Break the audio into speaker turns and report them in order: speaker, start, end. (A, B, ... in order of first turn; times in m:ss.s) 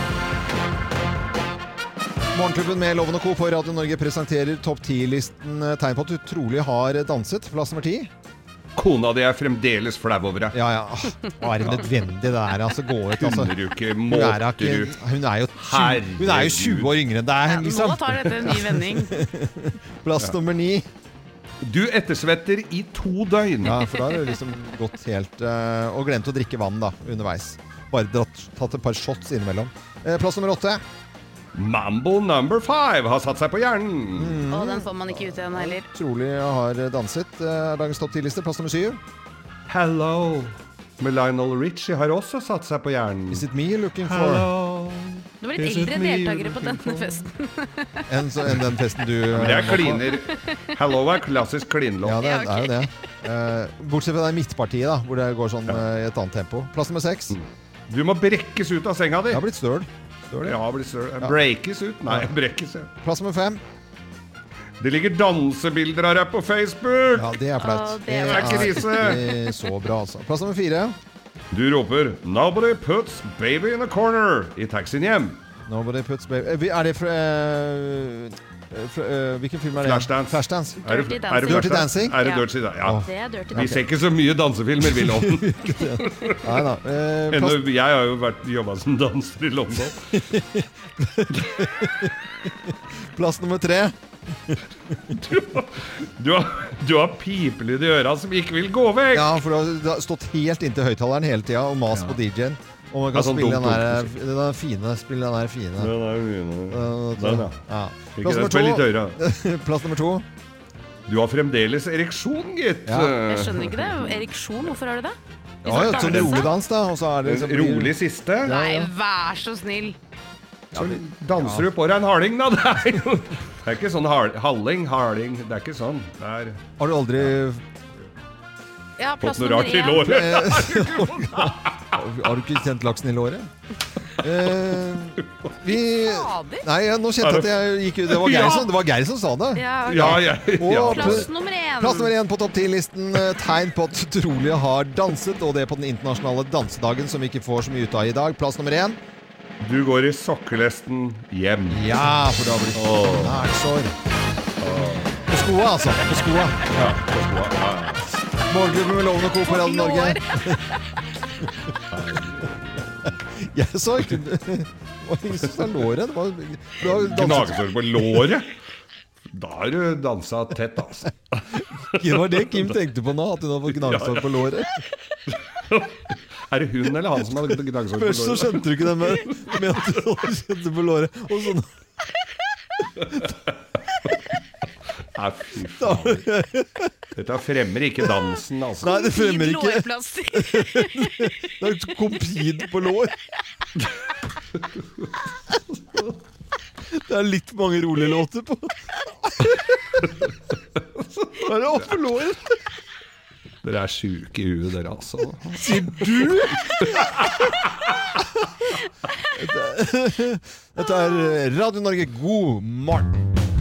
0:02.3-0:08.1 A
0:08.7-0:10.6 B
0:10.5-0:13.5 A
0:13.2-0:14.9 B
0:14.1-0:20.8 A
0:15.6-0:17.0 B
0:17.5-0:19.1 C
0:21.6-0:23.9 B
0:23.6-0:30.8 A
0:31.5-0:34.4 B
0:34.2-0:39.0 A
0:34.5-0:35.9 C
0:39.7-0:43.4 B
0:43.3-0:44.5 A
0:44.0-0:47.3 B
0:45.4-0:48.0 C
0:48.1-0:50.0 A
0:49.3-0:52.2 B
0:52.0-0:57.4 A
0:52.2-0:52.9 C
0:57.3-0:59.4 B
0:59.3-1:00.6 A
1:00.4-1:02.9 B
1:02.1-1:02.3 A
1:03.0-1:03.6 A
1:04.8-1:07.3 B
1:07.1-1:11.0 A
1:07.6-1:09.2 C
1:08.2-1:09.4 B
1:11.5-1:15.4 B
1:15.7-1:20.8 A
1:19.7-1:26.6 B
1:20.8-1:23.8 C
1:21.4-1:22.2 A
1:22.8-1:23.8 A
1:24.9-1:27.6 A
1:27.3-1:30.2 B
1:30.2-1:32.1 A
1:33.1-1:33.9 A
1:35.1-1:39.4 B
1:39.1-1:45.9 A
1:43.1-1:44.1 B
1:45.8-1:47.6 B
1:46.7-1:50.2 A
1:48.1-1:49.2 B
1:51.1-1:54.2 B
1:52.8-1:53.1 A
1:53.2-1:56.5 C
1:55.6-1:56.5 B
1:55.6-1:58.9 A
1:57.2-1:58.6 B
1:58.4-2:00.0 C
2:00.7-2:01.7 A
2:00.7-2:06.6 B
2:06.8-2:07.6 A
2:09.0-2:10.2 C
2:09.2-2:11.9 B
2:10.0-2:13.5 A
2:14.2-2:29.0 A
2:15.2-2:15.5 B
2:15.9-2:16.6 C
2:17.2-2:18.7 B
2:19.5-2:22.1 C
2:19.8-2:21.3 B
2:29.6-2:32.1 B
2:31.7-2:33.9 A
2:32.7-2:33.4 B
2:34.6-2:35.2 B
2:35.3-2:37.0 A
2:36.7-2:38.1 B
2:38.4-2:40.6 A
2:39.4-2:40.4 C
2:41.9-2:42.9 B
2:43.4-2:48.2 A
2:46.8-2:48.5 B
2:49.3-2:52.7 B
2:52.0-2:54.8 A
2:53.7-2:54.5 B
2:55.3-3:00.1 B
2:57.9-3:01.7 A
3:03.0-3:03.6 B
3:05.1-3:06.3 B
3:05.8-3:06.9 A
3:07.1-3:08.9 B
3:08.8-3:11.3 C
3:08.8-3:13.1 A
3:16.9-3:18.7 A
3:19.3-3:20.0 A
3:21.4-3:22.6 A
3:23.6-3:26.0 B
3:25.5-3:27.1 A
3:26.6-3:28.1 B
3:29.3-3:33.1 A